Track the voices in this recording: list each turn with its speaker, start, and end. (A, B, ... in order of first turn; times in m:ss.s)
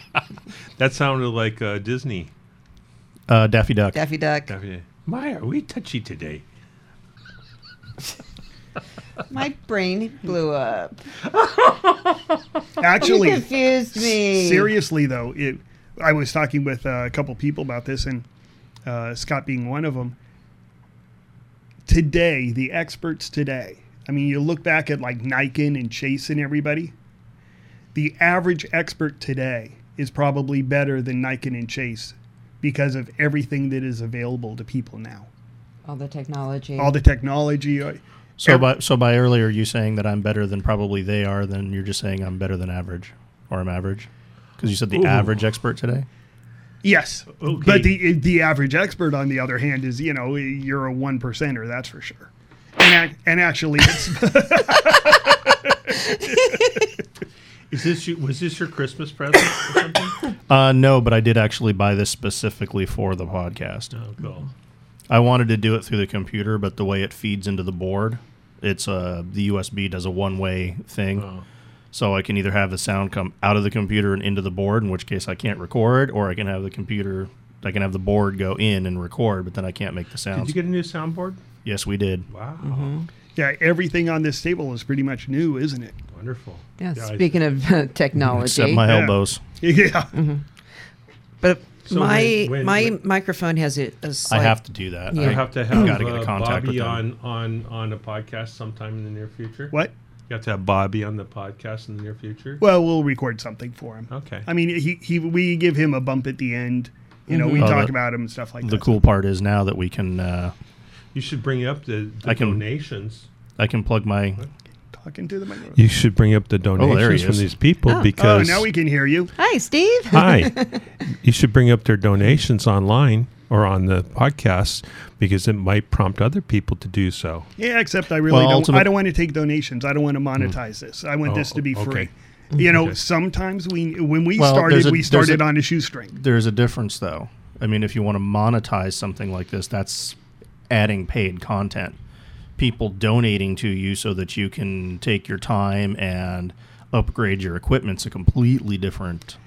0:00.8-0:02.3 A
0:03.3-0:04.0 B
0:03.9-0:04.5 C
0:04.5-0:06.4 A
0:09.3-0:11.0 C
0:11.4-0:11.8 A
0:12.8-0:18.2 D
0:13.0-0:14.7 C
0:18.8-0:20.2 D
0:21.8-0:26.9 D
0:27.9-0:35.3 D
0:35.8-0:37.0 C
0:36.8-0:38.7 D
0:38.4-0:46.1 B
0:44.9-0:45.4 A
0:46.8-0:55.2 D
0:47.4-0:48.0 A
0:57.7-1:00.2 A
1:00.5-1:03.9 B
1:03.9-1:04.5 A
1:05.1-1:11.3 B
1:11.2-1:11.4 A
1:11.9-1:20.5 B
1:20.3-1:21.4 A
1:21.6-1:22.3 B
1:22.3-1:22.9 A
1:22.6-1:23.1 C
1:23.4-1:26.0 D
1:26.1-1:27.4 A
1:26.8-1:28.8 C
1:28.2-1:29.4 B
1:28.8-1:30.1 D
1:30.1-1:30.4 C
1:31.4-1:35.4 C
1:31.9-1:32.9 A
1:34.3-1:37.0 B
1:35.1-1:39.7 A
1:40.3-1:42.6 A
1:42.6-1:49.0 D
1:44.1-1:44.5 A
1:47.3-1:47.7 C
1:47.6-1:47.9 B
1:48.6-1:50.5 B
1:51.1-1:53.3 A
1:52.2-1:52.6 B
1:53.6-1:54.4 B
1:55.0-1:55.8 D
1:55.7-1:58.7 A
1:56.8-1:57.4 B
1:58.2-1:59.3 D
1:59.4-2:00.8 C
2:00.1-2:00.5 A
2:01.2-2:07.5 A
2:07.6-2:16.2 D
2:08.3-2:08.9 B
2:11.2-2:12.1 A
2:12.7-2:13.0 A
2:14.4-2:15.5 B
2:16.1-2:20.2 B
2:20.7-2:22.0 B
2:22.6-2:29.4 B